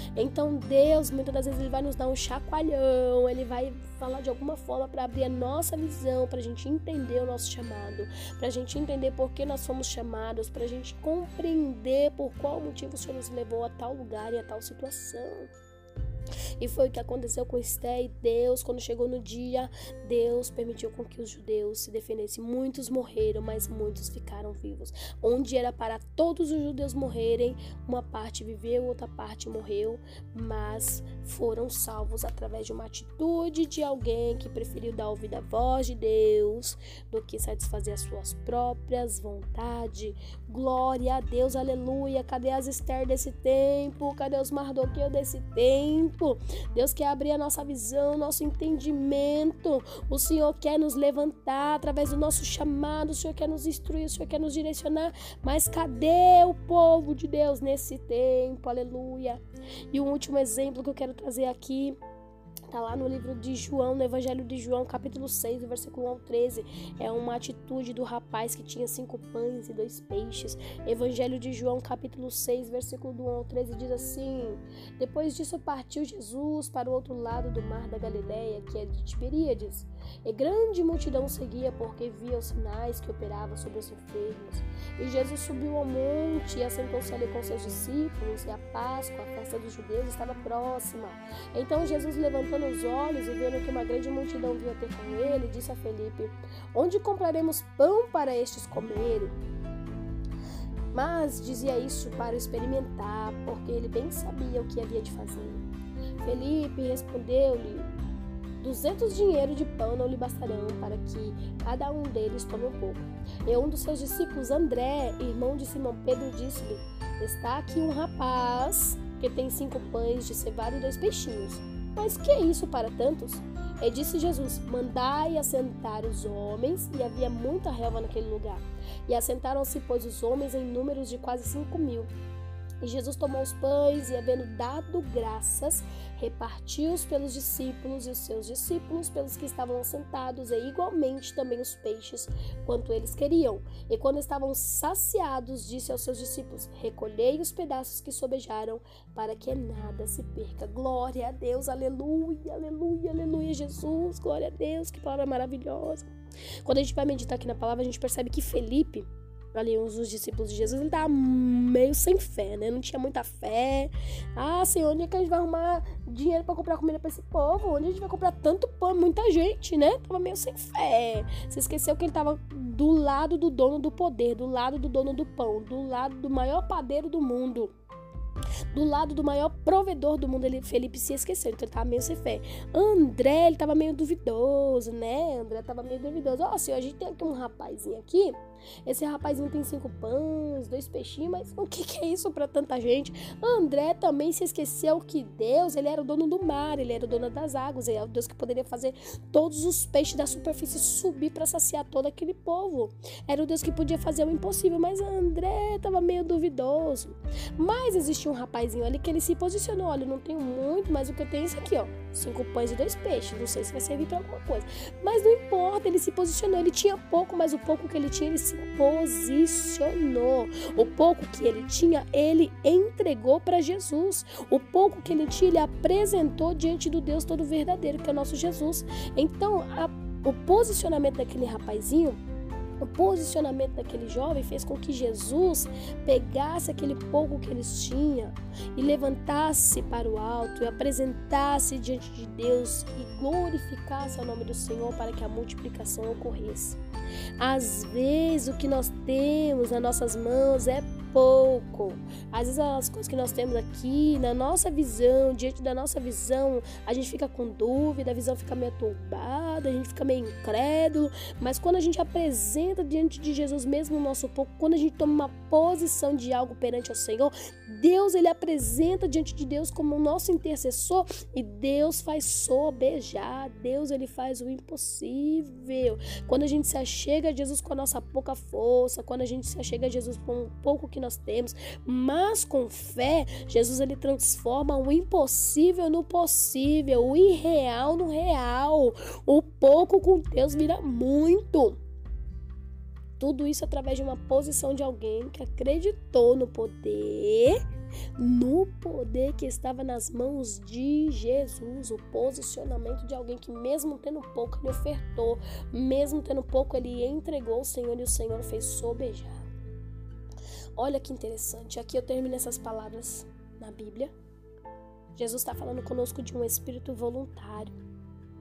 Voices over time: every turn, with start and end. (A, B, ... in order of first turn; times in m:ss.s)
0:00.2-0:15.5 A
0:16.6-1:02.0 A
1:02.7-1:39.4 A
1:40.9-1:45.6 A
1:46.2-1:47.9 A
1:48.6-2:12.1 A
2:12.8-2:36.1 A
2:36.6-2:57.7 A
2:58.7-3:52.2 A
3:52.8-4:06.8 A
4:07.4-4:51.8 A
4:53.2-4:57.6 A
4:58.2-5:09.5 A
5:10.8-5:14.1 A
5:15.2-5:17.8 A